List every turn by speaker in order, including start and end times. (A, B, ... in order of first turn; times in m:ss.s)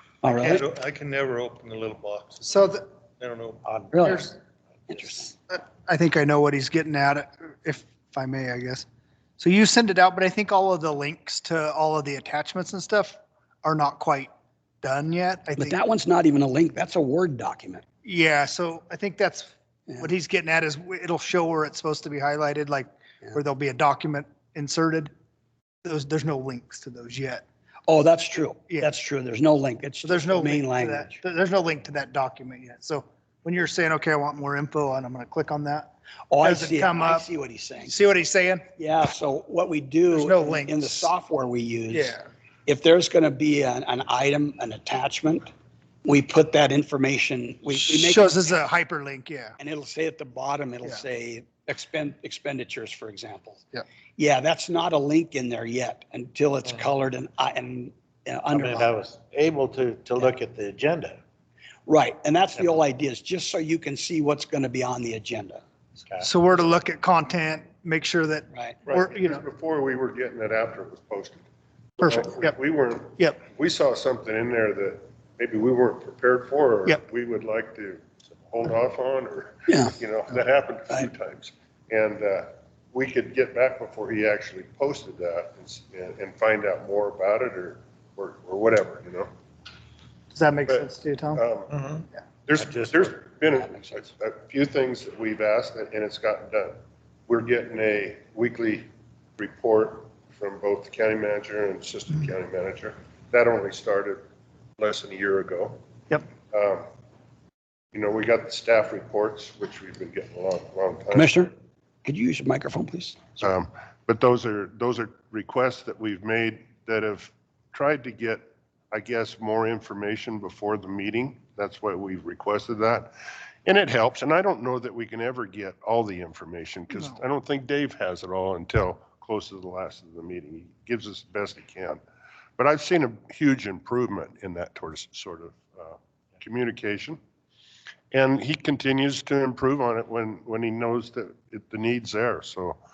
0:00.2-0:00.7 A
0:00.4-0:02.5 B
0:02.4-0:02.8 C
0:03.2-0:03.6 B
0:03.6-0:04.1 D
0:03.9-0:04.3 A
0:04.1-0:04.4 C
0:04.9-0:05.3 A
0:05.5-0:08.8 C
0:09.4-0:14.3 C
0:14.8-0:15.8 C
0:15.6-0:17.8 A
0:18.0-0:25.1 C
0:25.8-0:27.4 C
0:27.9-0:31.2 A
0:30.0-0:37.3 C
0:36.3-0:38.0 A
0:37.8-0:38.6 C
0:38.8-0:45.5 A
0:40.1-0:41.1 C
0:41.9-0:42.2 C
0:46.0-0:48.5 A
0:47.8-0:49.6 C
0:49.6-0:53.6 A
0:54.2-0:58.9 A
0:58.5-1:01.2 D
1:01.9-1:05.6 A
1:06.0-1:06.3 D
1:06.2-1:09.4 C
1:08.9-1:11.4 E
1:12.0-1:29.3 E
1:12.0-1:12.6 C
1:19.7-1:20.0 A
1:30.3-1:31.4 C
1:30.7-1:31.7 E
1:31.7-1:33.2 D
1:32.5-1:36.8 E
1:33.5-1:34.1 A
1:37.3-1:38.9 E
1:39.4-1:44.2 E
1:44.8-1:45.8 E
1:46.5-1:46.8 E
1:47.9-1:51.4 E
1:51.1-1:51.5 A
1:52.0-1:53.3 A
1:53.4-2:03.1 E
2:03.7-2:12.0 E
2:12.6-2:17.2 E
2:18.1-2:22.8 E